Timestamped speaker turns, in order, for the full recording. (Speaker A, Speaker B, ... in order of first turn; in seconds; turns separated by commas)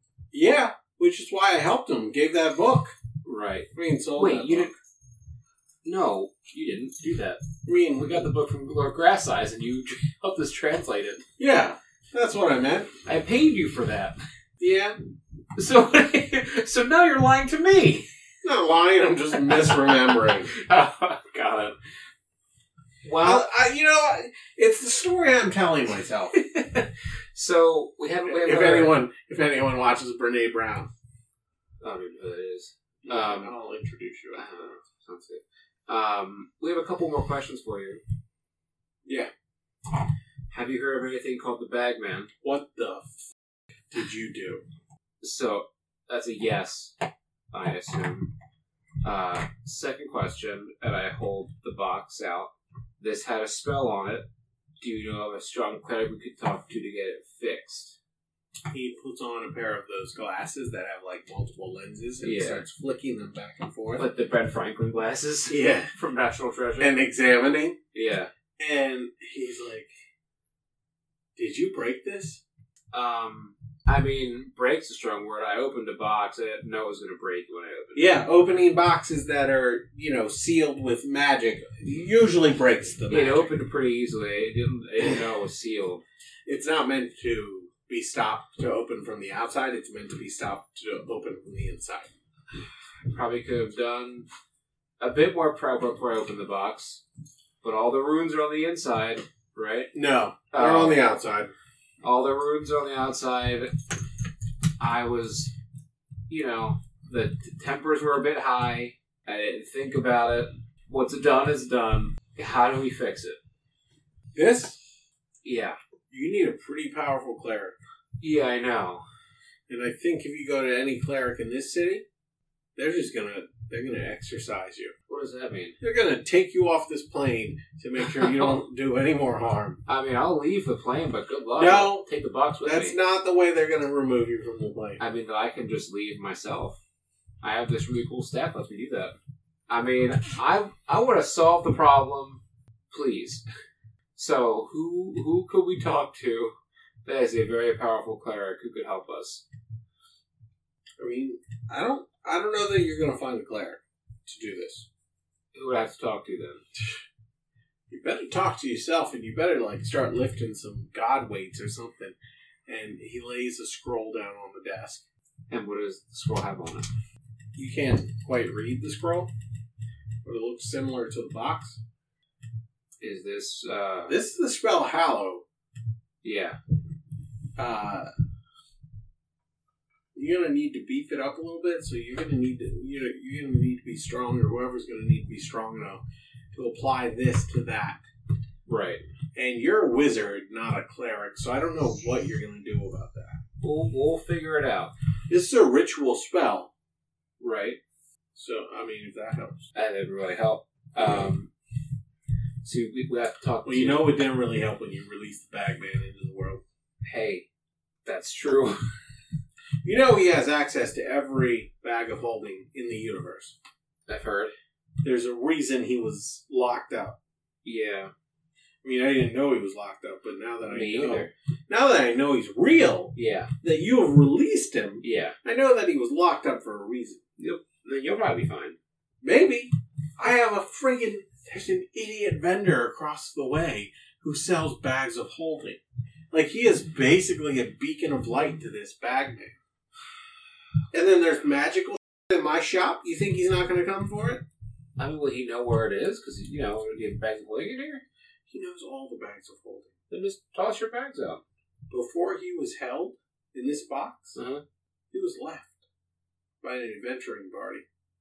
Speaker A: 0.3-2.9, Speaker B: 3.2-4.7, Speaker A: 3.7-4.7, Speaker B: 5.8-11.2, Speaker A: 7.7-8.1, Speaker A: 11.4-12.9, Speaker B: 13.1-14.2, Speaker A: 14.6-15.0, Speaker B: 15.6-18.1, Speaker A: 18.4-20.5, Speaker B: 19.4-21.8, Speaker B: 23.0-23.5, Speaker A: 23.2-26.3, Speaker B: 26.3-29.0, Speaker A: 28.3-30.9, Speaker B: 31.8-33.5, Speaker A: 33.0-34.7, Speaker B: 34.3-38.0, Speaker A: 39.0-39.3, Speaker B: 40.5-42.3, Speaker A: 42.4-43.2, Speaker A: 43.9-44.6, Speaker B: 45.2-47.0, Speaker B: 47.5-48.3, Speaker B: 49.0-54.3, Speaker B: 54.8-58.0, Speaker A: 58.7-64.1, Speaker B: 62.2-62.6, Speaker B: 64.0-67.0, Speaker A: 65.5-65.9, Speaker A: 66.8-67.8, Speaker B: 67.9-68.3, Speaker A: 68.6-69.9, Speaker A: 71.4-72.4, Speaker B: 72.9-78.3, Speaker A: 78.0-83.5, Speaker B: 83.1-86.0, Speaker A: 86.5-92.1, Speaker B: 93.1-94.3, Speaker B: 95.0-97.0, Speaker B: 97.6-99.9, Speaker A: 99.9-101.5, Speaker B: 100.5-101.0, Speaker B: 102.0-103.7, Speaker B: 104.8-105.5, Speaker B: 106.3-113.4, Speaker A: 114.3-114.8, Speaker B: 115.4-115.8, Speaker A: 116.1-117.8, Speaker B: 118.2-119.1, Speaker A: 119.7-122.0, Speaker A: 122.8-124.9, Speaker B: 125.1-125.8, Speaker A: 125.8-129.8, Speaker B: 128.0-128.6, Speaker B: 129.9-133.0, Speaker A: 131.6-132.1, Speaker A: 132.6-135.0, Speaker B: 135.0-136.8, Speaker B: 137.4-139.2, Speaker B: 139.7-143.4, Speaker B: 144.2-146.5, Speaker B: 147.1-149.4, Speaker A: 151.0-154.9, Speaker B: 155.5-156.6, Speaker A: 157.9-162.2, Speaker A: 162.7-165.0, Speaker B: 165.5-166.9, Speaker A: 167.6-169.3, Speaker A: 170.2-171.8, Speaker B: 173.0-174.2, Speaker A: 174.1-175.4, Speaker B: 176.2-176.6, Speaker A: 177.6-178.1, Speaker A: 180.2-188.0, Speaker B: 188.7-189.0, Speaker A: 189.3-193.4, Speaker B: 193.6-194.9, Speaker A: 195.3-196.7, Speaker B: 197.4-197.8, Speaker A: 198.3-199.7, Speaker B: 199.8-201.5, Speaker B: 202.6-204.2, Speaker A: 203.7-206.6, Speaker B: 207.0-207.5, Speaker B: 208.1-208.9, Speaker A: 209.8-213.6, Speaker B: 214.1-214.5, Speaker A: 215.0-217.2, Speaker B: 217.6-218.1, Speaker A: 218.8-227.2, Speaker B: 220.7-221.3, Speaker B: 223.2-223.5, Speaker B: 225.0-225.4, Speaker B: 227.4-228.8, Speaker A: 229.2-235.8, Speaker A: 236.3-239.5, Speaker A: 240.9-244.4, Speaker B: 245.0-248.0, Speaker A: 248.5-249.9, Speaker B: 250.1-251.4, Speaker A: 251.9-254.4, Speaker B: 254.3-254.6, Speaker A: 255.1-255.8, Speaker A: 256.6-257.9